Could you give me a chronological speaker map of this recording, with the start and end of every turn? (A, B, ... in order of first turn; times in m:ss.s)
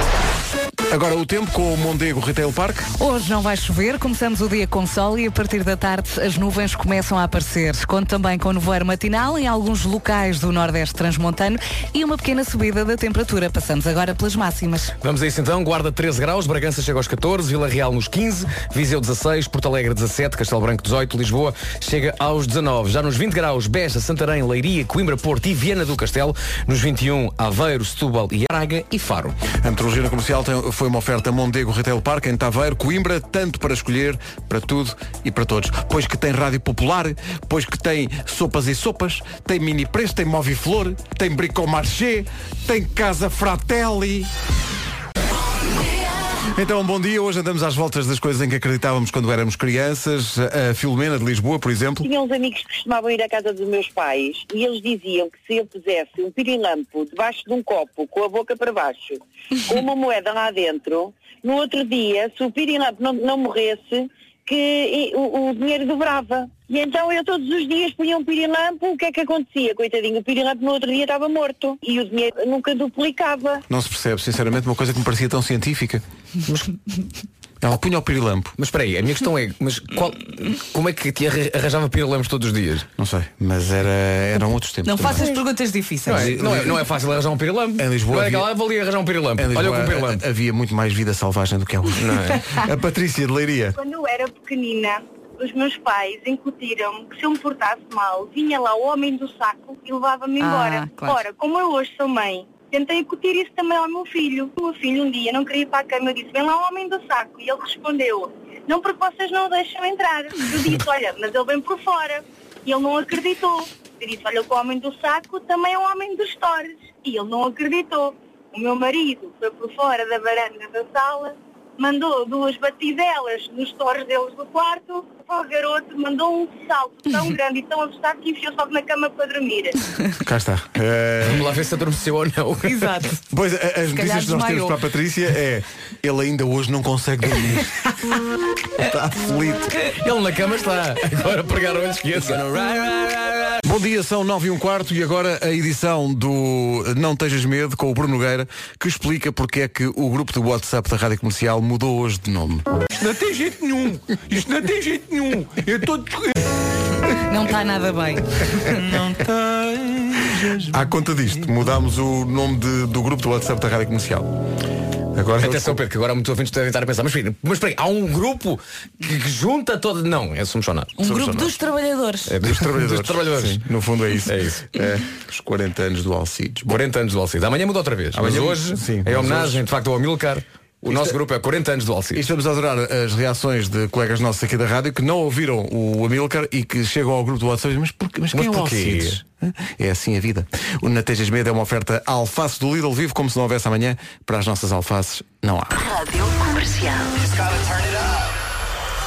0:00.9-0:02.9 A
0:03.0-0:14.9 B
0:15.0-0:29.4 C
0:29.5-0:44.3 A
0:46.5-0:52.1 A
0:52.0-1:13.7 D
1:13.7-1:16.0 A
1:17.6-1:18.6 A
1:18.6-1:22.9 C
1:23.0-1:25.4 A
1:24.8-1:26.4 B
1:26.1-1:26.9 A
1:26.1-1:30.2 C
1:27.8-1:28.5 A
1:29.4-1:33.8 A
1:32.0-1:32.4 C
1:33.8-2:09.8 E
1:40.4-1:41.2 B
2:10.2-2:11.6 A
2:11.2-2:13.1 C
2:12.6-2:13.2 B
2:13.3-2:17.9 A
2:13.9-2:14.8 B
2:18.8-2:19.8 A
2:19.8-2:23.6 C
2:23.6-2:32.7 A
2:32.9-2:36.4 F
2:37.1-2:39.0 B
2:38.9-2:40.8 F
2:40.7-2:44.3 A
2:45.1-2:45.8 A
2:45.4-2:51.0 C
2:51.0-2:52.3 B
2:51.0-2:51.6 A
2:52.3-2:53.7 C
2:52.4-2:56.8 A
2:54.3-2:54.6 C
2:56.7-3:02.2 C
2:58.1-2:59.7 A
3:00.9-3:01.2 A
3:02.1-3:15.9 A
3:08.3-3:09.2 C